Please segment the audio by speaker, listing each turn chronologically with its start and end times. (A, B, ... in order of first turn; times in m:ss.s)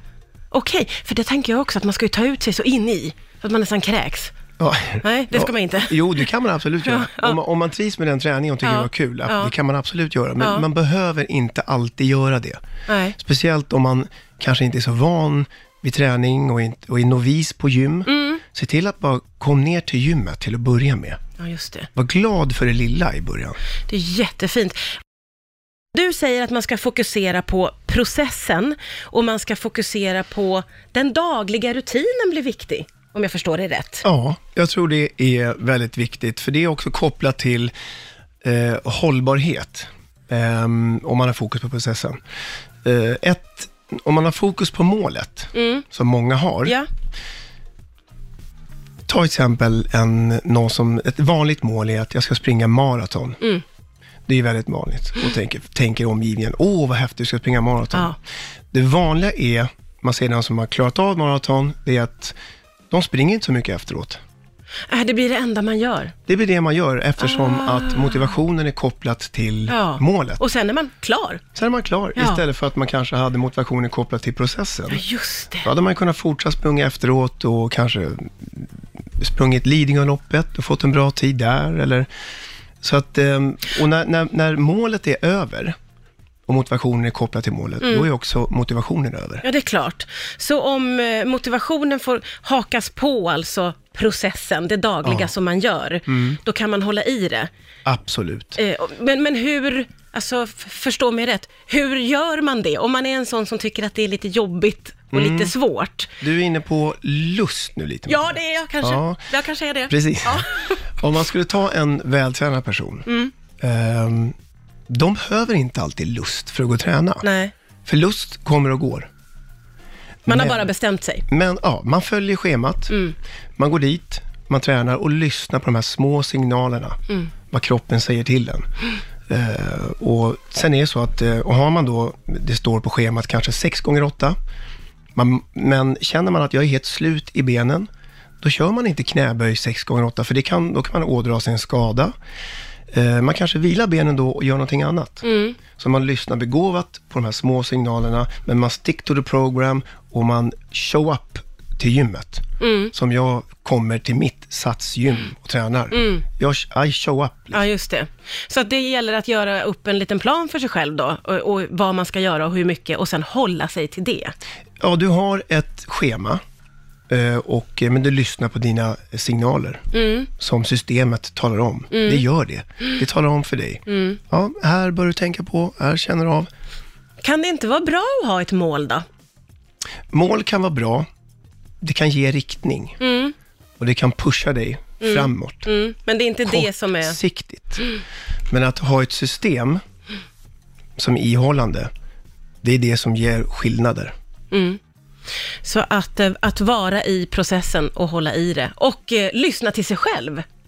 0:00.5-0:04.3 A
0:04.6-0:12.6 B
0:05.0-0:06.2 A
0:06.8-0:07.4 A
0:08.6-0:09.5 A
0:10.4-0:10.6 A
0:12.9-0:13.2 A
0:13.2-0:21.2 B
0:18.1-0:18.4 A
0:21.4-0:21.9 A
0:21.9-0:23.6 B
0:23.9-0:24.8 A
0:25.9-0:34.0 A
0:34.0-0:37.7 B
0:38.4-0:42.2 B
0:42.8-0:46.8 B
0:45.5-0:45.8 A
0:49.1-0:53.4 B
0:54.3-0:58.2 B
0:58.7-1:02.3 B
1:02.9-1:04.2 B
1:04.9-1:06.1 A
1:06.3-1:10.4 B
1:07.2-1:08.3 A
1:09.7-1:11.4 A
1:11.5-1:15.0 B
1:12.2-1:12.4 A
1:14.9-1:15.7 A
1:15.6-1:22.1 B
1:22.8-1:25.7 B
1:26.5-1:29.4 B
1:27.8-1:28.1 A
1:29.4-1:37.5 A
1:35.0-1:35.3 B
1:36.1-1:36.4 B
1:37.8-1:38.6 B
1:38.6-1:46.1 A
1:45.1-1:45.5 B
1:46.2-1:49.3 B
1:48.1-1:50.9 A
1:49.9-1:53.1 B
1:53.1-1:53.3 A
1:53.6-1:54.3 B
1:54.9-1:57.2 B
1:57.2-1:57.5 A
1:57.8-1:59.1 B
2:00.2-2:00.7 B
2:00.3-2:01.2 A
2:01.3-2:03.0 B
2:03.6-2:07.0 B
2:07.5-2:08.7 B
2:09.3-2:14.4 B
2:15.1-2:17.9 B
2:18.4-2:22.1 B
2:22.9-2:37.6 B
2:25.2-2:25.6 A
2:32.6-2:32.9 A
2:35.9-2:36.2 A
2:37.5-2:44.3 A
2:44.8-2:46.4 B
2:47.1-2:49.8 B
2:49.9-2:50.3 A
2:50.4-2:56.5 B
2:51.9-2:52.2 A
2:53.9-2:54.2 A
2:57.2-2:59.0 A
3:00.1-3:01.0 B
3:01.8-3:03.0 B
3:03.0-3:03.3 A
3:03.8-3:05.7 B
3:05.0-3:07.2 A
3:06.4-3:07.8 B
3:08.5-3:09.8 B
3:11.0-3:11.9 B
3:12.6-3:14.1 B
3:14.5-3:14.8 A
3:15.6-3:20.4 A